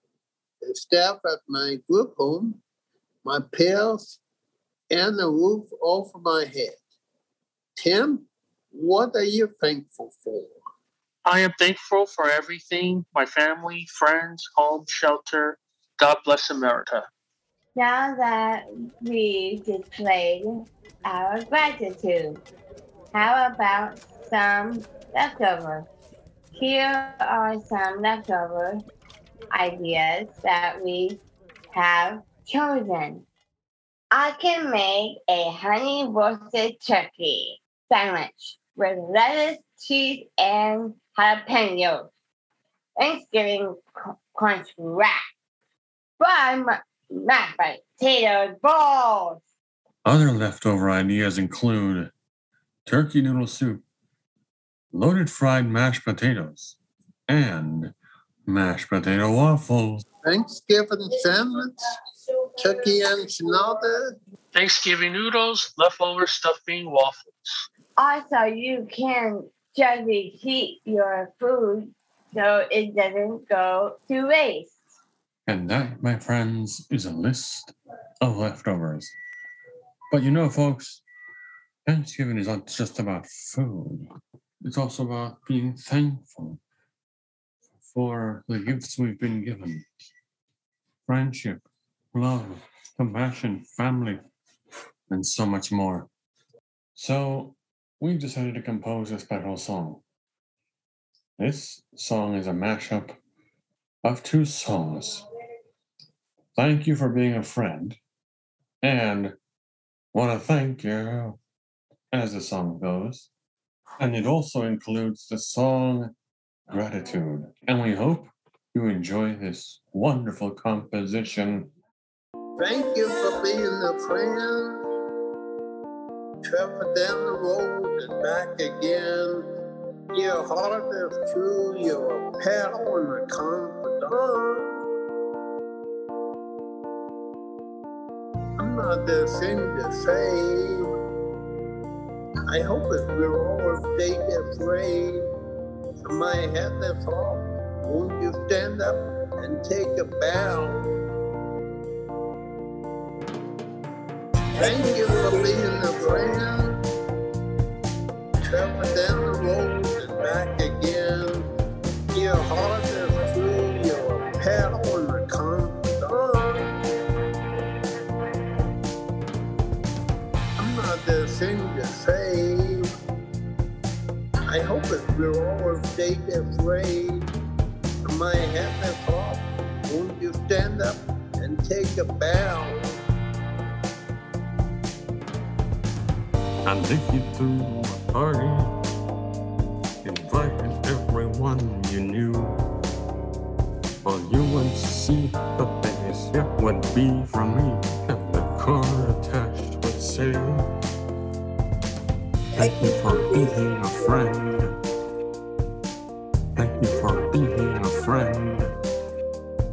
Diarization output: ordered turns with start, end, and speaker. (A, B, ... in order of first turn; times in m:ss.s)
0:00.6-0:02.6 A
0:03.2-0:04.2 A
0:04.9-0:06.8 A
0:07.8-0:10.6 A
0:11.2-0:17.1 B
0:17.8-0:22.4 C
0:23.1-0:25.9 C
0:26.5-0:28.8 C
0:29.5-0:33.2 C
0:34.1-0:42.1 C
0:43.0-0:45.2 C
0:46.2-0:49.4 C
0:50.0-0:52.1 D
0:52.8-0:53.8 D
0:54.9-0:56.8 D
0:57.3-0:57.9 D
0:58.4-1:00.0 D
1:00.2-1:01.8 A
1:02.6-1:04.1 A
1:04.5-1:07.6 B
1:08.0-1:14.7 C
1:15.5-1:19.1 D
1:20.1-1:21.0 D
1:21.8-1:24.1 D
1:24.6-1:26.6 D
1:27.8-1:29.8 D
1:31.0-1:34.2 D
1:35.1-1:36.1 D
1:37.0-1:40.0 D
1:41.4-1:43.2 D
1:44.0-1:45.2 D
1:46.6-1:48.0 D
1:48.8-1:49.3 D
1:50.1-1:51.4 D
1:52.1-1:53.3 D
1:54.0-1:56.1 D
1:56.7-2:01.7 D
2:02.6-2:04.8 A
2:06.5-2:09.4 A
2:10.1-2:14.7 A
2:18.6-2:20.9 A
2:22.5-2:25.3 A
2:26.0-2:30.8 A
2:34.6-2:36.8 A
2:38.4-2:41.5 A
2:42.1-2:46.7 A
2:50.6-2:52.9 A
2:54.5-2:57.3 A
2:58.0-3:03.0 A
3:06.6-3:08.8 D
3:10.0-3:12.6 D
3:14.0-3:20.7 D
3:22.6-3:24.7 D
3:26.6-3:28.7 D